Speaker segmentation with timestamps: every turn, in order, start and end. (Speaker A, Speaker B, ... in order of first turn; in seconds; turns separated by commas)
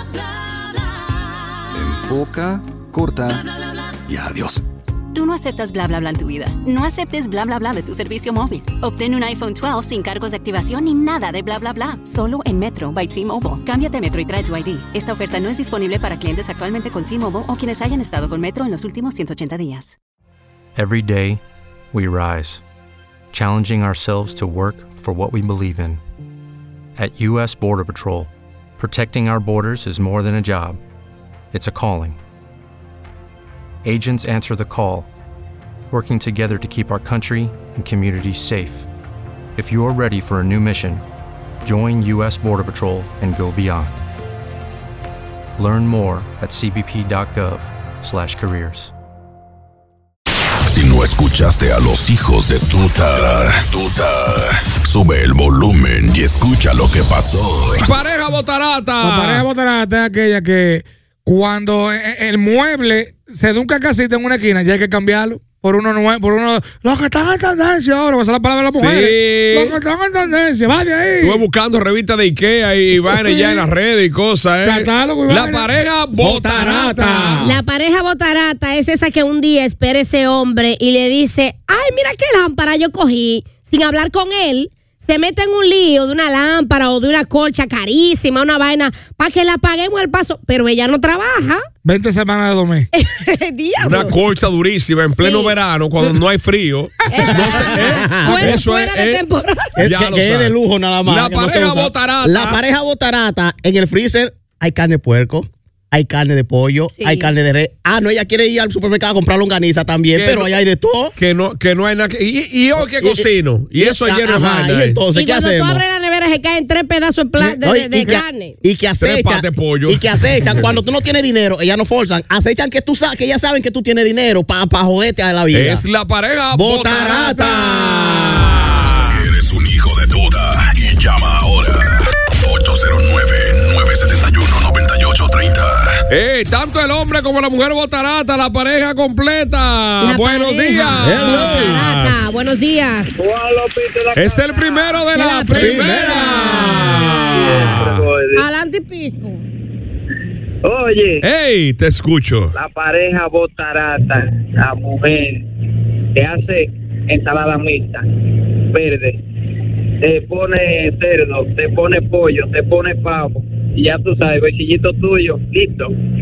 Speaker A: 1.7-3.4, Speaker A: 4.1-4.6, Speaker B: 5.1-19.9, Speaker C: 20.8-21.4, Speaker C: 21.9-22.6, Speaker C: 23.3-26.0, Speaker C: 27.0-30.8, Speaker C: 31.5-32.2, Speaker C: 33.8-35.1, Speaker C: 35.9-38.9, Speaker C: 39.5-41.0, Speaker C: 41.6-43.9, Speaker C: 45.6-48.9, Speaker D: 50.7-57.9, Speaker E: 57.8-59.4, Speaker F: 59.0-71.4, Speaker E: 68.8-69.8, Speaker E: 71.2-77.4, Speaker F: 73.1-73.6, Speaker F: 74.6-75.7, Speaker G: 76.2-77.6, Speaker H: 77.4-91.6, Speaker F: 91.8-92.9, Speaker H: 92.9-94.1, Speaker E: 93.8-99.2, Speaker H: 95.1-96.1, Speaker H: 97.1-99.8, Speaker G: 97.3-98.6, Speaker G: 99.8-111.1, Speaker E: 99.8-102.6, Speaker H: 107.0-107.3, Speaker E: 110.1-110.5, Speaker E: 111.2-115.0, Speaker G: 112.8-115.8, Speaker H: 115.1-118.5, Speaker G: 117.4-125.8, Speaker E: 119.0-120.7, Speaker E: 125.5-129.2, Speaker G: 126.5-128.7, Speaker D: 129.0-136.0, Speaker E: 136.1-142.3, Speaker H: 140.0-143.2, Speaker G: 141.0-141.7, Speaker I: 143.2-145.1, Speaker E: 144.1-148.1, Speaker H: 145.1-147.7, Speaker G: 145.6-146.4, Speaker I: 147.3-148.5, Speaker H: 148.3-149.4, Speaker I: 150.6-151.2, Speaker E: 151.2-152.5, Speaker I: 152.5-155.5, Speaker I: 156.1-158.0, Speaker I: 158.7-159.2, Speaker I: 160.0-165.9